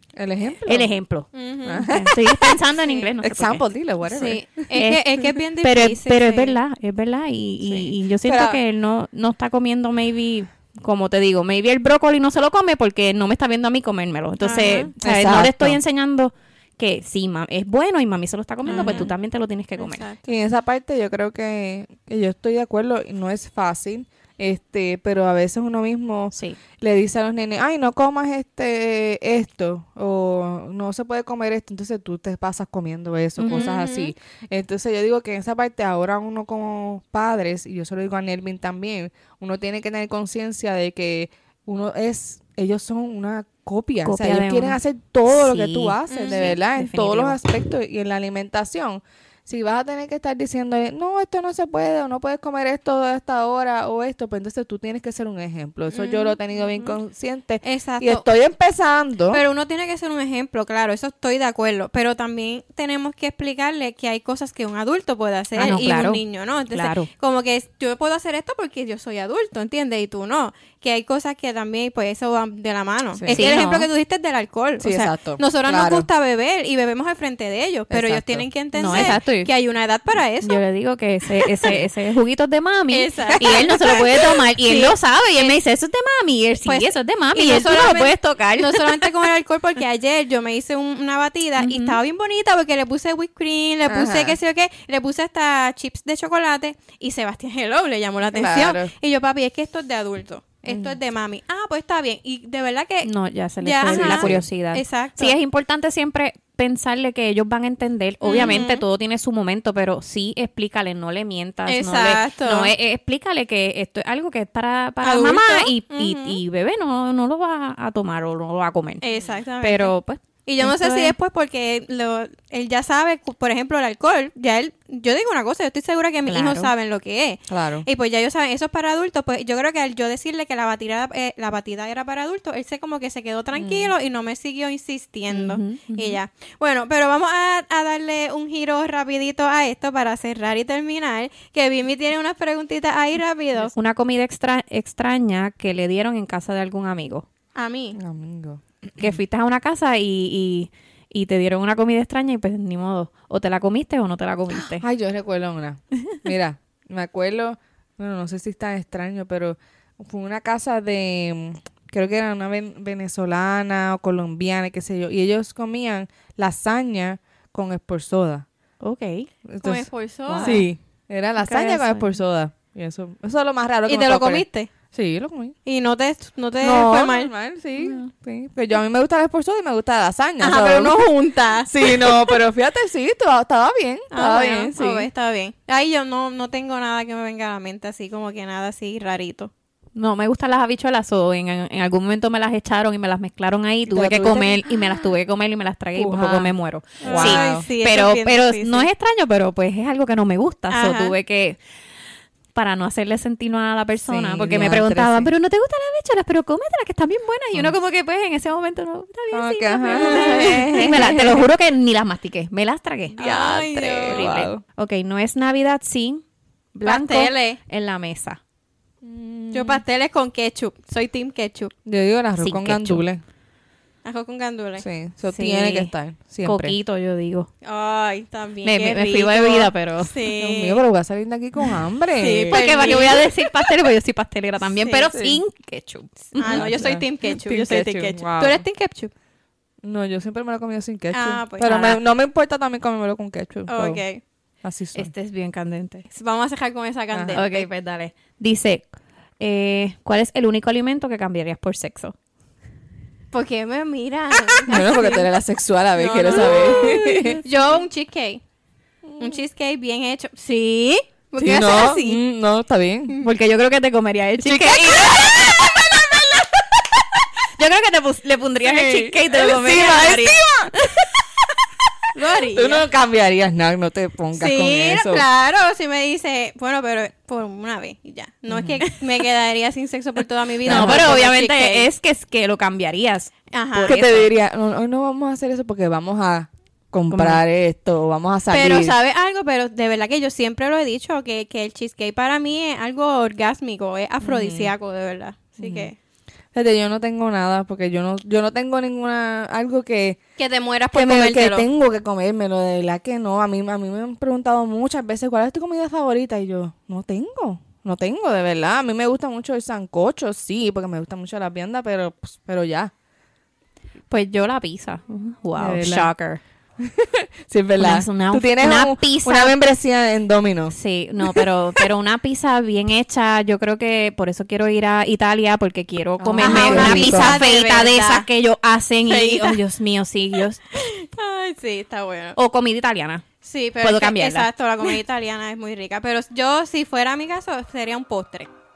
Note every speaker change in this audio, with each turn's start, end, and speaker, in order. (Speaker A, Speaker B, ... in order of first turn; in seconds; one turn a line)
Speaker A: 0.1-1.0
Speaker B: 0.7-1.3
Speaker C: 1.3-2.2
Speaker A: 1.6-2.4
Speaker B: 1.9-3.6
Speaker C: 2.8-3.1
Speaker A: 3.2-4.8
Speaker C: 4.0-6.5
Speaker B: 4.8-5.0
Speaker B: 5.6-20.1
Speaker A: 8.2-8.6
Speaker C: 14.4-14.9
Speaker A: 15.0-15.8
Speaker C: 18.6-19.1
Speaker A: 18.7-19.1
Speaker C: 19.8-20.2
Speaker A: 20.2-59.4
Speaker B: 33.4-33.7
Speaker C: 33.5-34.1
Speaker B: 44.0-44.8
Speaker B: 45.3-47.4
Speaker C: 46.1-46.5
Speaker C: 55.9-56.9
Speaker C: 57.6-58.2
Speaker C: 59.3-80.6
Speaker A: 65.5-65.9
Speaker B: 65.6-67.1
Speaker A: 73.1-73.5
Speaker B: 73.3-73.9
Speaker A: 74.8-76.1
Speaker A: 77.9-79.2
Speaker B: 78.8-79.5
Speaker B: 80.4-89.1
Speaker C: 82.9-85.6
Speaker C: 86.6-103.1
Speaker B: 91.6-92.0
Speaker A: 93.9-94.4
Speaker A: 98.3-98.9
Speaker A: 100.6-101.0
Speaker B: 103.0-119.0
Speaker C: 103.6-105.3
Speaker A: 103.8-104.5
Speaker C: 108.2-108.8
Speaker A: 108.3-108.7
Speaker C: 111.7-112.7
Speaker C: 115.0-116.4
Speaker C: 119.0-119.9
Speaker B: 119.6-121.1
Speaker C: 120.5-143.7
Speaker B: 126.3-126.7
Speaker A: 127.5-127.8
Speaker A: 133.5-133.9
Speaker B: 135.3-136.2
Speaker B: 143.7-147.2
Speaker C: 147.6-148.0
Speaker A: 147.9-149.2
Speaker B: 149.0-154.8
Speaker A: 154.5-168.4
Speaker B: 168.8-169.3
Speaker A: 169.4-175.6
Speaker C: 169.6-170.6
Speaker B: 170.3-170.6
Speaker B: 171.4-172.1
Speaker C: 173.9-174.7
Speaker C: 175.7-177.3
Speaker A: 176.6-181.1
Speaker B: 177.8-178.1
Speaker C: 180.4-182.4
Speaker A: 181.7-185.1
Speaker C: 184.1-189.5
Speaker B: 189.9-201.6
Speaker A: 193.9-194.6
Speaker A: 195.9-196.5
Speaker C: 197.0-198.9
Speaker A: 197.0-197.6
Speaker C: 200.7-201.1
Speaker B: 202.5-213.3
Speaker A: 204.0-205.3
Speaker A: 209.3-211.5
Speaker C: 209.9-211.0
Speaker C: 213.2-214.3
Speaker A: 213.2-214.6
Speaker B: 214.0-216.2
Speaker B: 216.7-218.4
Speaker C: 216.8-217.6
Speaker A: 219.0-219.8
Speaker C: 219.5-221.7
Speaker A: 221.8-223.2
Speaker B: 222.4-223.0
Speaker C: 224.0-224.8
Speaker A: 224.8-226.8
Speaker B: 225.3-225.9
Speaker B: 226.4-227.5
Speaker C: 227.6-230.8
Speaker B: 228.6-230.1
Speaker A: 230.4-233.1
Speaker C: 232.2-233.5
Speaker B: 232.5-236.9
Speaker C: 234.7-235.1
Speaker A: 235.1-235.4
Speaker C: 236.3-239.1
Speaker A: 236.4-238.7
Speaker A: 239.8-244.0
Speaker C: 241.1-242.0
Speaker C: 243.7-244.2
Speaker A: 244.6-245.1
Speaker B: 244.9-246.1
Speaker C: 246.1-247.7
Speaker A: 247.1-247.4
Speaker B: 247.3-248.9
Speaker B: 249.4-252.1
Speaker C: 253.3-255.3
Speaker A: 254.7-257.4
Speaker C: 255.9-258.4
Speaker B: 256.3-257.4
Speaker A: 259.1-259.4
Speaker C: 259.2-262.2
Speaker A: 261.4-263.1
Speaker B: 263.2-266.0
Speaker A: 264.4-267.0
Speaker B: 267.6-271.1
Speaker A: 268.6-271.2
Speaker C: 272.1-272.8
Speaker A: 272.5-275.2
Speaker C: 274.4-281.9
Speaker A: 278.5-278.9
Speaker B: 280.6-284.3
Speaker A: 280.6-281.1
Speaker C: 283.5-283.9
Speaker A: 283.9-288.9
Speaker B: 287.1-287.4
Speaker C: 288.5-295.9
Speaker A: 294.2-294.7
Speaker A: 295.6-295.9
Speaker A: 296.5-300.2
Speaker C: 300.4-301.7
Speaker A: 300.9-312.9
Speaker B: 314.1-316.4
Speaker A: 315.6-316.1
Speaker A: 316.8-321.9
Speaker B: 317.8-319.6
Speaker B: 320.7-330.7
Speaker A: 326.2-327.4
Speaker C: 326.4-328.3
Speaker C: 329.1-329.6
Speaker C: 330.7-332.4
Speaker B: 332.4-333.3
Speaker C: 333.4-338.5
Speaker B: 333.8-334.9